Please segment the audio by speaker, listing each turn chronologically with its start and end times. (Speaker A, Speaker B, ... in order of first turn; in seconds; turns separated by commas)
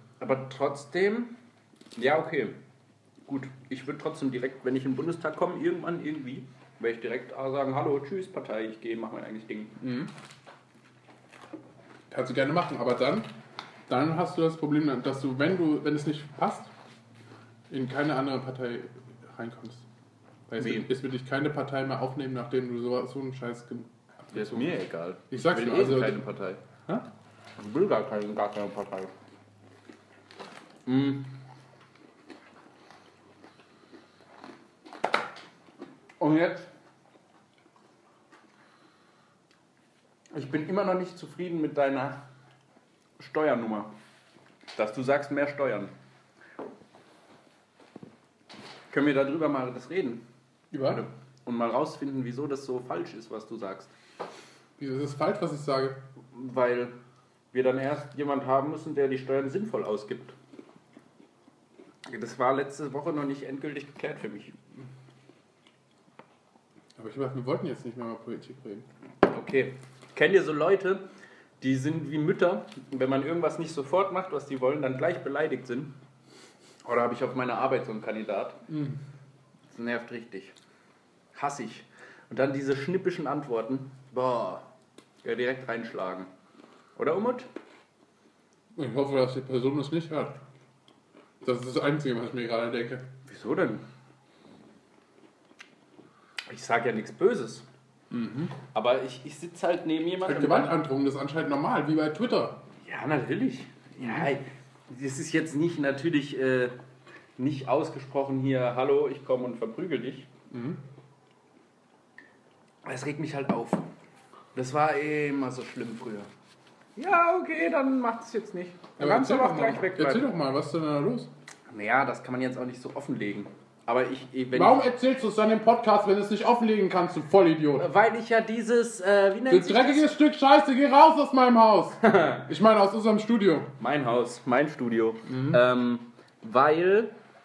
Speaker A: 0.2-1.4, Speaker A: 1.9-2.6, Speaker A: 3.3-9.8, Speaker B: 9.8-10.1, Speaker B: 12.1-13.3, Speaker B: 13.9-16.7, Speaker B: 17.7-19.8, Speaker B: 20.5-24.7, Speaker A: 20.6-20.9, Speaker A: 24.3-26.6, Speaker B: 25.3-26.2, Speaker A: 27.6-29.1, Speaker A: 30.9-31.3, Speaker A: 36.2-36.7, Speaker A: 40.3-42.2, Speaker A: 43.2-43.9, Speaker A: 44.8-45.9, Speaker A: 48.9-50.2, Speaker B: 50.7-51.0, Speaker A: 50.8-53.9, Speaker B: 54.8-56.0, Speaker A: 56.3-57.0, Speaker A: 57.5-60.3, Speaker A: 62.0-64.5, Speaker B: 67.0-68.8, Speaker A: 69.2-71.0, Speaker A: 71.6-75.9, Speaker A: 76.8-78.6, Speaker B: 78.7-79.0, Speaker A: 79.7-80.5, Speaker A: 81.3-84.6, Speaker A: 85.2-86.3, Speaker A: 87.0-87.5, Speaker B: 88.8-90.4, Speaker B: 91.4-93.0, Speaker A: 93.3-93.8, Speaker A: 96.5-97.7, Speaker B: 98.1-98.5, Speaker A: 98.7-100.8, Speaker B: 100.2-102.6, Speaker A: 102.8-106.7, Speaker B: 104.0-104.3, Speaker A: 107.4-110.3, Speaker B: 110.5-110.8, Speaker A: 112.8-113.9, Speaker A: 114.5-116.3, Speaker A: 117.0-120.2, Speaker B: 119.0-121.3, Speaker A: 121.7-124.8, Speaker B: 124.5-127.9, Speaker A: 127.8-130.1, Speaker B: 129.5-133.7, Speaker A: 132.0-132.5, Speaker A: 133.8-137.1, Speaker B: 135.3-135.6